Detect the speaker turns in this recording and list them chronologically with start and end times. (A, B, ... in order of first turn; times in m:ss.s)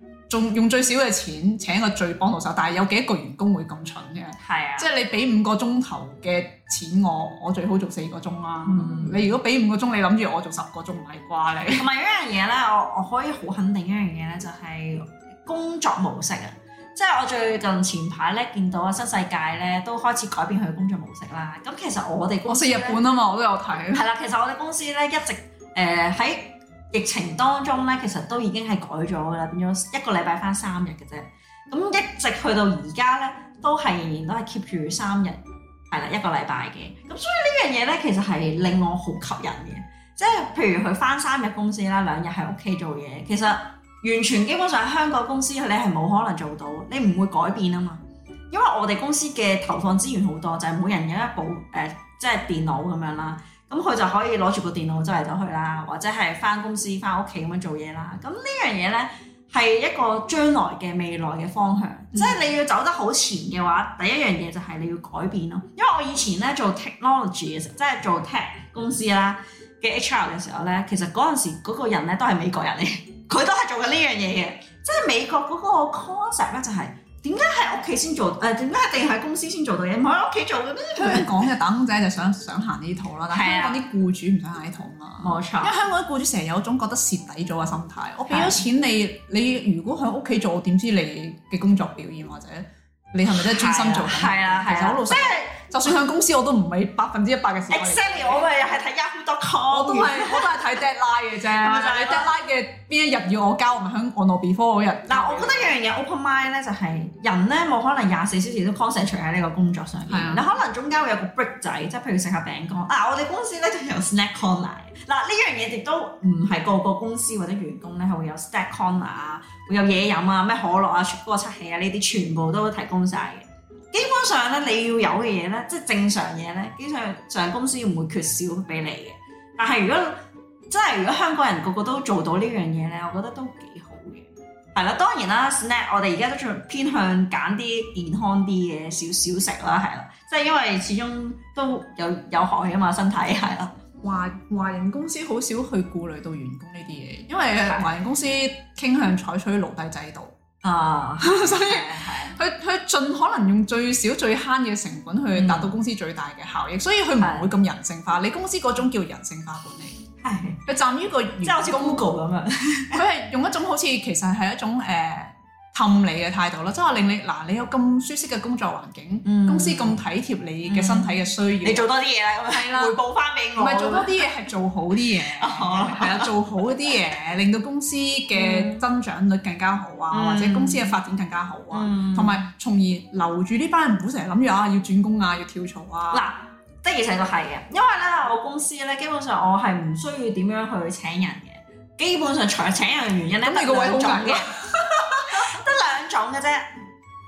0:00.3-0:11.8 A
0:04.4-0:04.9 B
0:08.6-0:09.2 B
0:11.7-0:23.0 B
0:22.5-0:24.0 A
0:23.9-1:21.3 B
1:02.1-1:02.4 A
1:21.0-1:38.5 A
1:23.3-1:23.8 B
1:25.2-1:25.8 B
1:28.3-1:28.6 B
1:33.3-1:35.7 B
1:37.7-1:40.6 B
1:39.7-1:45.8 A
1:41.6-1:42.3 B
1:45.1-2:23.7 B
1:50.1-1:50.4 A
2:24.0-2:30.3 A
2:27.6-2:27.9 B
2:30.6-2:32.4 B
2:31.2-2:40.0 A
2:35.3-2:35.7 B
2:37.2-2:37.5 B
2:40.2-2:40.6 B
2:40.6-2:42.0 A
2:41.4-2:43.0 B
2:42.9-2:51.9 A
2:49.2-2:50.0 B
2:50.6-2:54.2 B
2:52.5-2:53.0 A
2:53.6-3:06.3 A
2:55.4-2:56.3 B
2:58.3-2:58.8 B
3:00.1-3:00.9 B
3:01.7-3:02.4 B
3:06.1-3:16.7 B
3:13.4-3:15.4 A